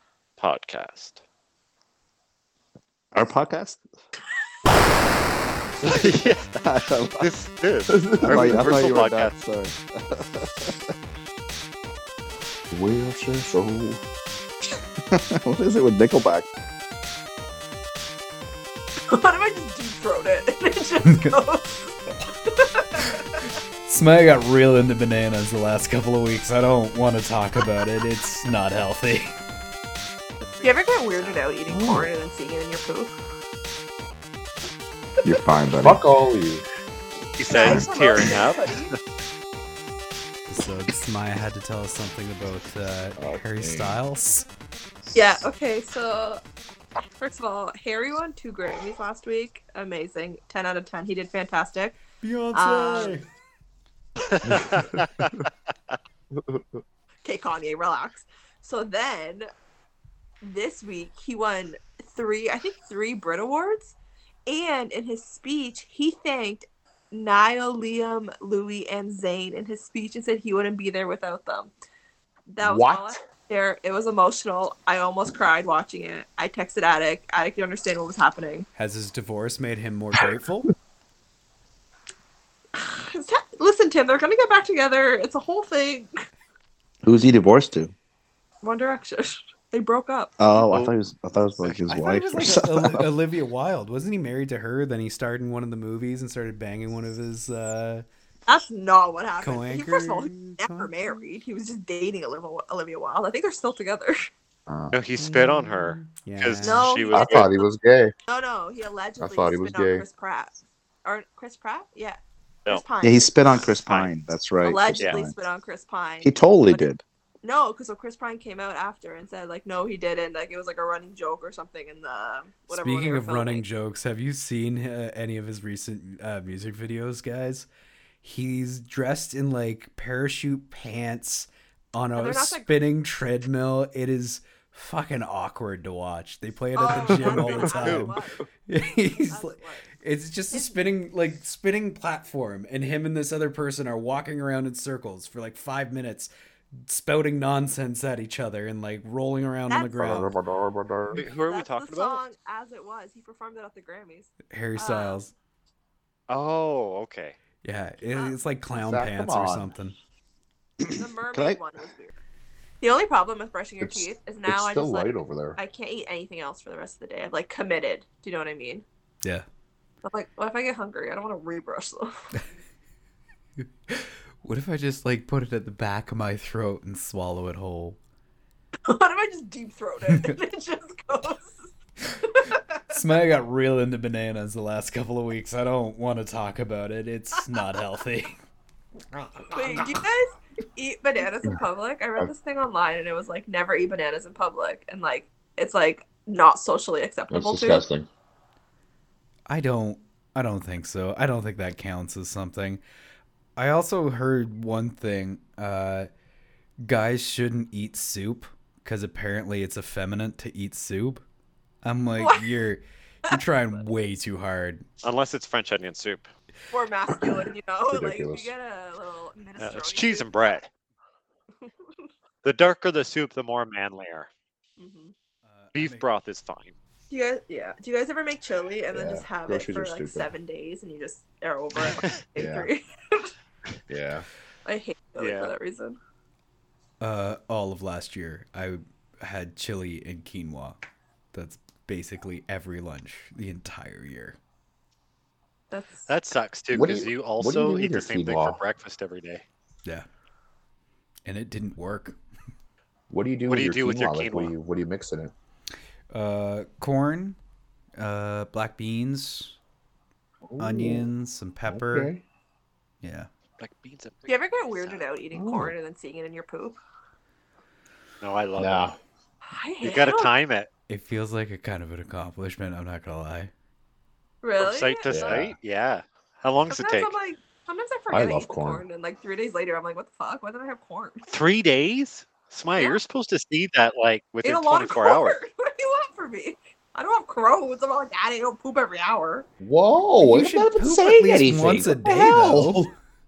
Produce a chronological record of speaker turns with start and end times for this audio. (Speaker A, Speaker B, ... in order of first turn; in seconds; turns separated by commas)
Speaker A: 0.4-1.2, Speaker B: 3.1-3.8, Speaker A: 5.8-9.3, Speaker B: 6.6-7.3, Speaker C: 7.9-8.9, Speaker B: 8.2-10.8, Speaker B: 12.7-14.0, Speaker B: 15.1-16.5, Speaker D: 19.1-23.4, Speaker E: 21.0-21.4, Speaker E: 23.9-29.4, Speaker D: 30.6-33.1, Speaker B: 31.8-32.0, Speaker B: 35.2-36.0, Speaker C: 35.8-36.6, Speaker A: 37.4-38.8, Speaker D: 37.5-38.9, Speaker E: 40.5-44.5, Speaker C: 43.2-44.0, Speaker D: 45.1-46.4, Speaker D: 47.0-52.0, Speaker E: 52.2-53.3, Speaker D: 52.5-53.2, Speaker A: 54.2-56.0, Speaker C: 54.4-55.4, Speaker C: 56.4-56.8, Speaker D: 57.2-59.5, Speaker D: 60.4-64.0, Speaker D: 64.5-71.7, Speaker D: 72.5-78.7, Speaker C: 72.6-73.3, Speaker E: 78.8-80.7, Speaker D: 82.8-86.1, Speaker B: 87.0-87.9, Speaker D: 88.6-90.3, Speaker B: 90.4-93.1, Speaker A: 90.4-90.9, Speaker E: 91.9-98.0, Speaker D: 98.5-104.3, Speaker E: 99.4-101.2, Speaker C: 104.7-105.0, Speaker A: 104.9-107.5, Speaker E: 105.2-106.9, Speaker D: 106.6-107.7, Speaker C: 107.1-108.1, Speaker D: 108.3-113.3, Speaker C: 109.2-110.0, Speaker B: 113.0-115.4, Speaker A: 113.8-114.1, Speaker D: 114.6-116.9, Speaker B: 116.2-117.0, Speaker D: 117.4-123.6, Speaker E: 122.7-127.7, Speaker E: 128.2-146.3, Speaker D: 132.2-132.7, Speaker D: 136.8-138.5, Speaker A: 137.2-138.1, Speaker D: 139.1-139.9, Speaker E: 146.8-150.4, Speaker D: 149.7-150.0, Speaker C: 150.0-151.2, Speaker A: 151.1-152.2, Speaker D: 151.2-155.2, Speaker E: 154.5-155.3, Speaker A: 156.3-157.4, Speaker E: 157.6-160.0, Speaker C: 158.8-159.6, Speaker B: 159.0-159.6, Speaker B: 160.8-161.6, Speaker D: 160.9-162.2, Speaker D: 162.8-168.8, Speaker C: 163.8-165.6, Speaker D: 170.0-172.1, Speaker E: 173.6-178.0, Speaker D: 178.9-183.0, Speaker E: 180.1-180.4, Speaker E: 182.9-188.4, Speaker E: 189.1-190.0, Speaker D: 189.5-197.8, Speaker C: 197.3-198.1, Speaker E: 199.5-202.8, Speaker E: 203.6-206.1, Speaker E: 206.8-211.2, Speaker E: 211.8-214.9, Speaker D: 212.2-212.4, Speaker A: 215.0-216.3, Speaker D: 216.7-220.3, Speaker C: 217.9-218.5, Speaker A: 219.6-220.7, Speaker D: 221.6-221.9, Speaker A: 222.4-224.3, Speaker D: 224.8-225.1, Speaker E: 225.5-226.1, Speaker A: 225.7-226.8, Speaker D: 227.1-233.3, Speaker C: 228.9-230.3, Speaker A: 231.8-232.2, Speaker C: 232.4-232.7, Speaker C: 233.9-234.3, Speaker D: 234.7-236.0, Speaker A: 235.2-235.5, Speaker E: 237.0-240.8, Speaker E: 241.3-244.4, Speaker D: 245.7-246.1, Speaker A: 246.1-249.4, Speaker C: 246.7-248.6, Speaker E: 251.3-252.2, Speaker C: 253.1-255.3, Speaker A: 253.5-254.5, Speaker E: 256.1-257.4, Speaker E: 258.0-259.6, Speaker C: 260.4-261.1, Speaker E: 260.6-262.1, Speaker C: 261.7-262.2, Speaker E: 263.0-263.3, Speaker A: 263.6-265.0, Speaker D: 264.3-266.8, Speaker C: 265.3-265.7, Speaker A: 268.2-268.9, Speaker C: 268.6-269.0, Speaker D: 269.5-270.3, Speaker A: 269.8-270.7, Speaker E: 270.9-273.5, Speaker D: 274.4-275.3, Speaker A: 274.6-277.1, Speaker C: 275.1-275.6, Speaker D: 276.7-281.3, Speaker C: 278.1-278.8, Speaker A: 281.3-285.4, Speaker D: 284.4-289.5, Speaker C: 289.6-292.9, Speaker E: 290.2-292.9